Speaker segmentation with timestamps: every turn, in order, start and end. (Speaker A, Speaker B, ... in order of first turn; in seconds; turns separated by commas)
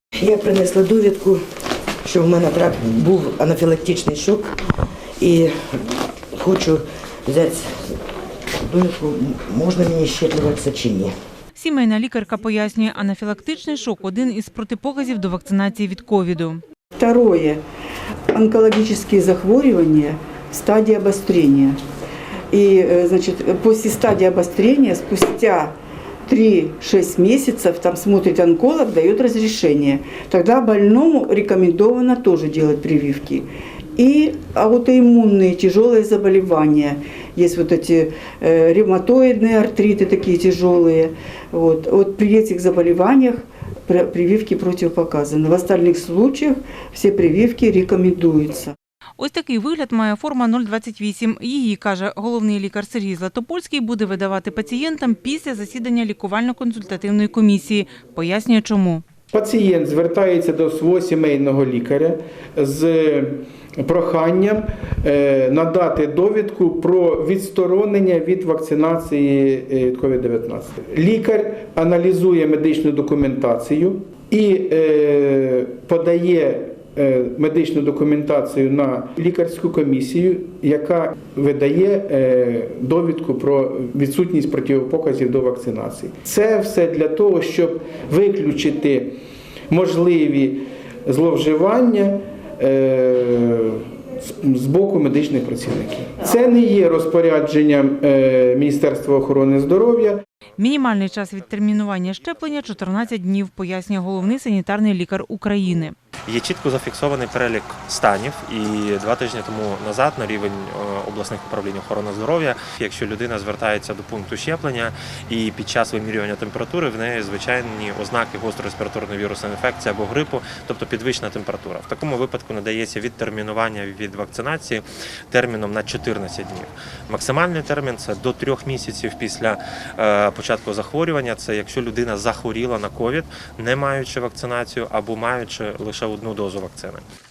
Speaker A: 0.2-1.4, Speaker A: 2.0-4.5, Speaker A: 5.2-5.5, Speaker A: 6.3-8.0, Speaker A: 8.5-11.1, Speaker B: 11.5-16.6, Speaker C: 17.0-17.6, Speaker C: 18.3-21.8, Speaker C: 22.5-25.7, Speaker C: 26.2-48.7, Speaker B: 49.2-59.0, Speaker D: 59.3-89.2, Speaker D: 89.7-100.2, Speaker B: 100.6-105.9, Speaker E: 106.3-137.0